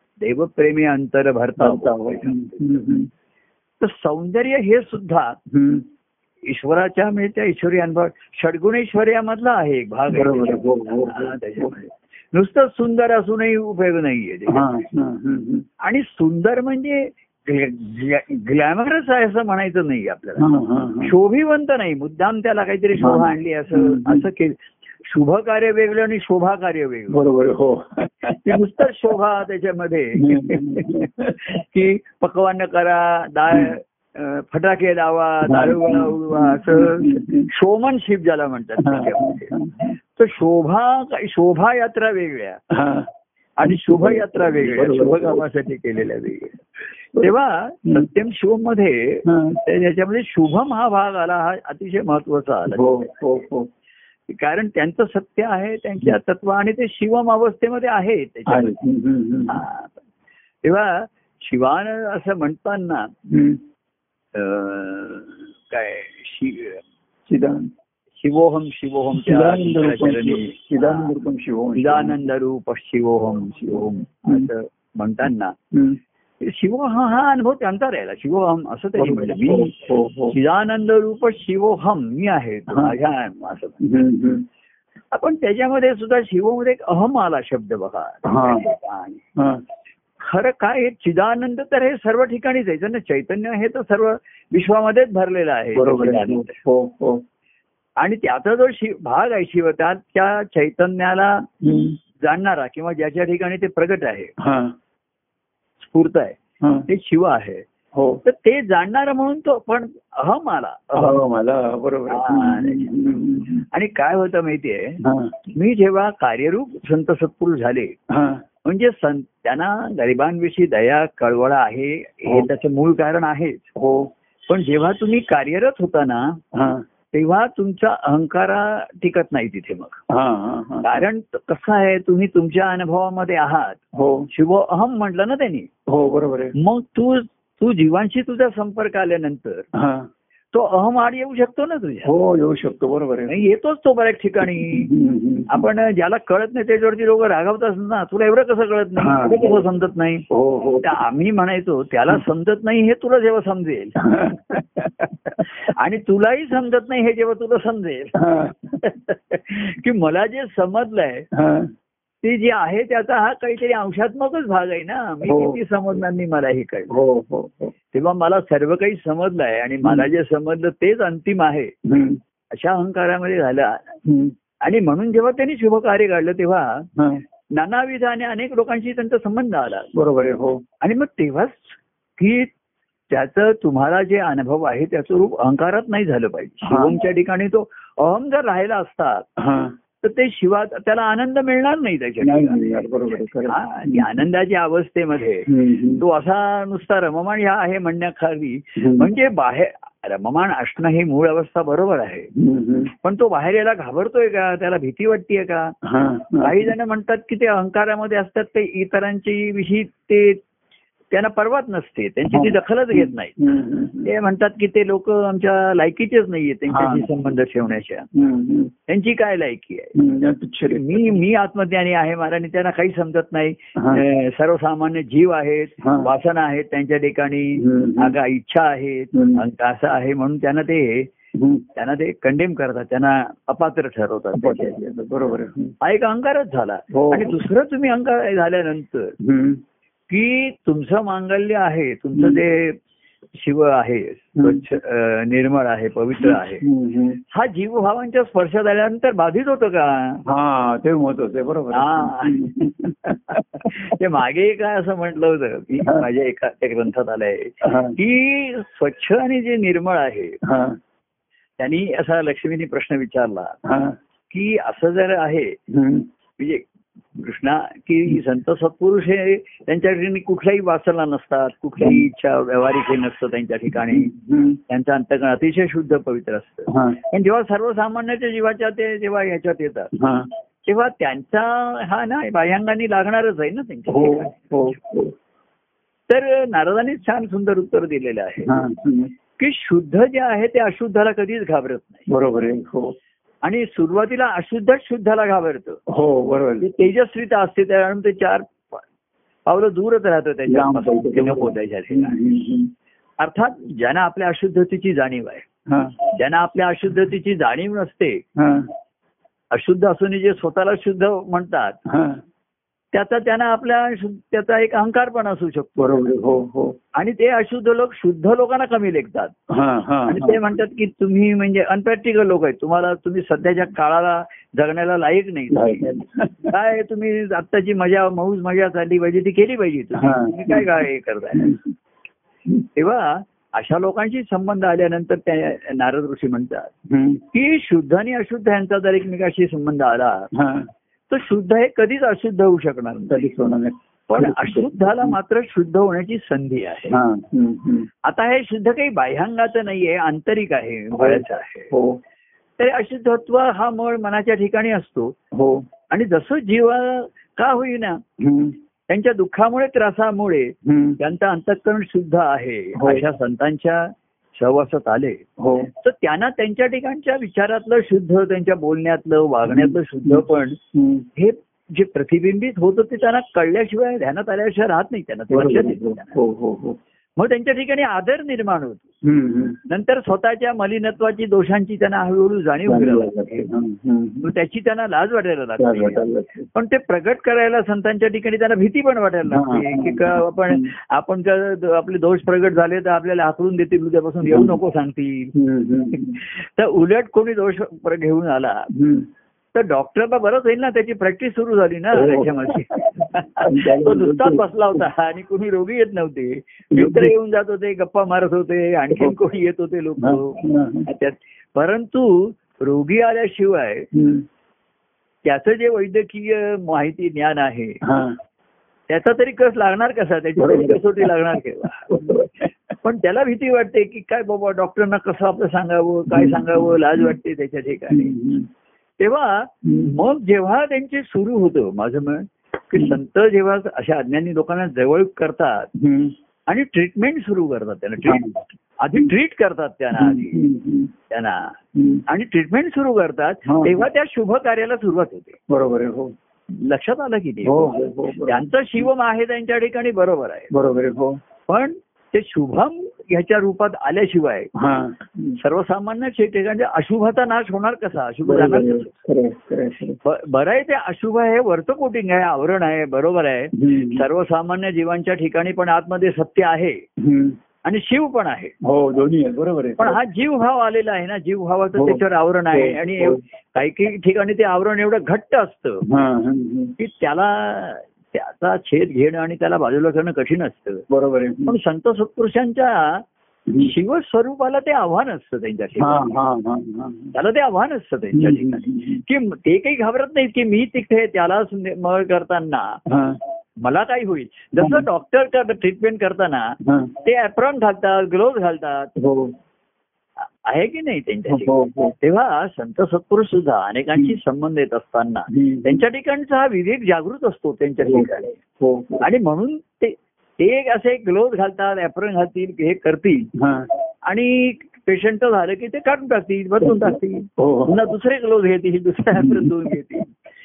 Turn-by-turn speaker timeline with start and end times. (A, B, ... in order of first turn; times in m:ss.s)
0:00.2-0:02.6 A
0:01.6-0:03.1 B
0:03.8-0:05.4 A
0:05.5-0:05.9 B
0:06.5-0:14.7 A
0:10.1-0:11.7 B
0:14.5-0:15.6 B
0:15.8-0:20.5 A
0:20.4-0:21.1 B
0:21.0-0:27.2 A
0:23.0-0:24.3 B
0:27.1-0:28.6 B
0:28.3-0:39.6 A
0:30.2-0:31.4 B
0:35.5-0:37.5 B
0:38.8-0:39.9 B
0:40.1-0:42.6 A
0:42.7-0:43.1 B
0:43.6-0:46.6 A
0:43.6-0:45.4 B
0:47.2-0:53.1 A
0:49.3-0:49.6 B
0:52.7-0:53.7 B
0:54.3-0:58.8 A
0:58.5-0:59.6 B
0:59.5-1:00.0 A
1:00.6-1:03.1 A
1:03.3-1:03.6 B
1:04.4-1:06.8 A
1:07.3-1:07.7 B
1:08.2-1:11.1 A
1:09.1-1:12.3 B
1:11.8-1:15.6 A
1:13.7-1:14.5 B
1:15.7-1:16.0 B
1:16.4-1:19.7 A
1:19.0-1:20.4 B
1:20.3-1:23.8 A
1:22.7-1:23.0 B
1:23.8-1:24.4 B
1:25.1-1:29.2 A
1:28.2-1:28.7 B
1:29.4-1:29.6 B
1:30.2-1:36.6 A
1:35.8-1:37.2 B
1:38.0-1:41.5 A
1:41.6-1:42.0 B
1:42.2-1:44.3 A
1:44.4-1:44.7 B
1:45.8-1:47.6 A
1:46.6-1:46.9 B
1:47.9-1:48.2 B
1:48.2-1:51.2 A
1:51.0-1:53.6 B
1:52.1-1:53.0 A
1:53.7-1:58.0 A
1:55.0-1:55.3 B
1:58.1-1:58.4 B
1:58.6-2:03.7 A
2:03.8-2:04.1 B
2:04.5-2:06.4 A
2:06.5-2:06.8 B
2:07.1-2:10.0 A
2:10.1-2:11.0 B
2:10.8-2:13.8 A
2:13.9-2:14.3 B
2:14.3-2:15.7 A
2:15.9-2:16.5 B
2:16.6-2:19.7 A
2:19.7-2:20.1 B
2:20.5-2:22.1 A
2:22.0-2:23.4 B
2:23.3-2:24.9 A
2:24.4-2:25.7 B
2:25.5-2:30.2 A
2:29.0-2:29.6 B
2:30.3-2:31.0 B
2:30.8-2:38.2 A
2:34.0-2:35.1 B
2:38.2-2:38.8 B
2:38.8-2:41.3 A
2:41.3-2:41.7 B
2:42.2-2:47.0 A
2:45.2-2:45.6 B
2:46.9-2:47.7 B
2:47.9-2:51.7 A
2:49.8-2:50.1 B
2:51.8-2:52.2 B
2:52.5-2:54.0 A
2:54.0-2:54.3 B
2:54.6-2:56.9 A
2:57.0-2:57.2 B
2:57.5-2:59.9 A
2:59.9-3:00.6 B
3:00.8-3:02.5 A
3:03.1-3:09.3 A
3:06.6-3:07.0 B
3:09.4-3:09.8 B
3:10.0-3:22.3 A
3:12.2-3:14.2 B
3:15.5-3:16.0 B
3:18.8-3:19.1 B
3:22.4-3:22.9 B
3:23.0-3:25.7 A
3:25.8-3:26.7 B
3:26.4-3:30.4 A
3:31.1-3:33.4 A
3:32.3-3:34.1 B
3:34.0-3:38.1 A
3:36.7-3:37.1 B
3:38.1-3:38.7 B
3:38.9-3:40.0 A
3:40.0-3:41.2 B
3:40.7-3:51.1 A
3:43.8-3:44.0 B
3:45.8-3:46.1 B
3:47.6-3:48.2 B
3:49.1-3:49.4 B
3:51.4-3:51.6 B
3:51.8-3:54.8 A
3:54.4-3:55.7 B
3:55.8-3:59.2 A
3:56.9-3:57.4 B
3:59.2-3:59.6 B
4:00.1-4:02.8 A
4:03.4-4:06.6 A
4:04.4-4:04.6 B
4:06.2-4:07.2 B
4:07.3-4:10.2 A
4:10.3-4:14.0 B
4:11.7-4:20.4 A
4:17.6-4:18.0 B
4:20.4-4:20.8 B
4:21.6-4:23.6 A
4:23.6-4:24.0 B
4:24.3-4:25.6 A
4:25.7-4:26.1 B
4:26.4-4:34.1 A
4:33.9-4:34.6 B
4:34.7-4:39.9 A
4:36.7-4:37.0 B
4:40.0-4:40.3 B
4:40.7-4:44.8 A
4:43.9-4:45.1 B
4:46.1-4:48.6 A
4:48.5-4:49.1 B
4:49.4-4:52.1 A
4:52.1-4:53.0 B
4:53.4-4:55.8 A
4:55.9-4:56.7 B
4:56.6-4:58.8 A
4:59.5-5:02.2 A
5:00.5-5:02.7 B
5:03.2-5:05.5 A
5:05.7-5:05.9 B
5:06.1-5:08.2 A
5:08.4-5:08.7 B
5:09.5-5:11.8 A
5:11.9-5:12.2 B
5:12.9-5:16.1 A
5:15.8-5:16.8 B
5:17.0-5:19.4 A
5:19.5-5:20.6 B
5:20.1-5:26.0 A
5:25.5-5:26.5 B
5:26.5-5:31.6 A
5:30.0-5:31.7 B
5:32.6-5:36.7 A
5:36.9-5:37.2 B
5:37.3-5:40.3 A
5:40.4-5:40.7 B
5:41.1-5:43.3 A
5:43.1-5:45.2 B
5:44.1-5:47.0 A
5:46.9-5:47.9 B
5:48.0-5:51.7 A
5:50.9-5:52.0 B
5:52.6-5:55.2 A
5:55.3-5:55.6 B
5:55.9-5:58.0 A
5:58.2-5:58.6 B
5:58.9-6:10.6 A
6:00.6-6:01.0 B
6:02.8-6:03.0 B
6:05.4-6:05.7 B
6:09.5-6:11.1 B
6:11.2-6:16.2 A
6:15.3-6:16.8 B
6:17.2-6:18.9 A
6:19.0-6:19.6 B
6:19.7-6:23.5 A
6:22.7-6:24.3 B
6:24.2-6:35.3 A
6:25.6-6:26.5 B
6:29.3-6:30.7 B
6:34.2-6:34.6 B
6:35.4-6:36.2 B
6:35.9-6:38.7 A
6:38.7-6:39.1 B
6:39.6-6:53.9 A
6:41.9-6:44.8 B
6:46.7-6:47.1 B
6:50.0-6:50.9 B
6:53.9-6:54.2 B
6:55.2-6:57.8 A
6:57.8-6:58.2 B
6:58.9-7:02.2 A
7:00.4-7:01.1 B
7:01.9-7:02.5 B
7:02.8-7:08.2 A
7:06.1-7:07.2 B
7:07.9-7:08.5 B
7:09.0-7:15.7 A
7:09.6-7:09.9 B
7:15.8-7:16.1 B
7:16.5-7:20.5 A
7:18.1-7:18.4 B
7:20.0-7:20.9 B
7:21.1-7:25.4 A
7:21.8-7:22.0 B
7:23.5-7:23.9 B
7:25.5-7:26.1 B
7:26.5-7:30.5 A
7:27.4-7:28.4 B
7:30.5-7:31.2 B
7:31.5-7:34.5 A
7:34.6-7:35.4 B
7:35.4-7:39.0 A
7:38.2-7:40.0 B
7:40.0-7:46.8 A
7:43.5-7:44.1 B
7:47.0-7:47.4 B
7:47.6-7:48.5 A
7:48.6-7:50.0 B
7:49.8-7:55.8 A
7:51.8-7:53.2 B
7:55.9-7:56.7 B
7:56.8-8:00.8 A
8:00.9-8:01.6 B
8:01.5-8:03.0 A
8:03.6-8:06.2 A
8:05.8-8:07.1 B
8:07.1-8:12.8 A
8:08.1-8:09.0 B
8:12.9-8:13.2 B
8:13.6-8:18.9 A
8:14.6-8:14.9 B
8:16.6-8:16.9 B
8:19.0-8:19.3 B
8:20.4-8:28.4 A
8:21.3-8:21.9 B
8:25.3-8:25.8 B
8:27.8-8:28.1 B
8:28.6-8:29.0 B
8:29.0-8:33.3 A
8:33.4-8:33.7 B
8:34.1-8:40.1 A
8:36.6-8:37.8 B
8:39.2-8:39.8 B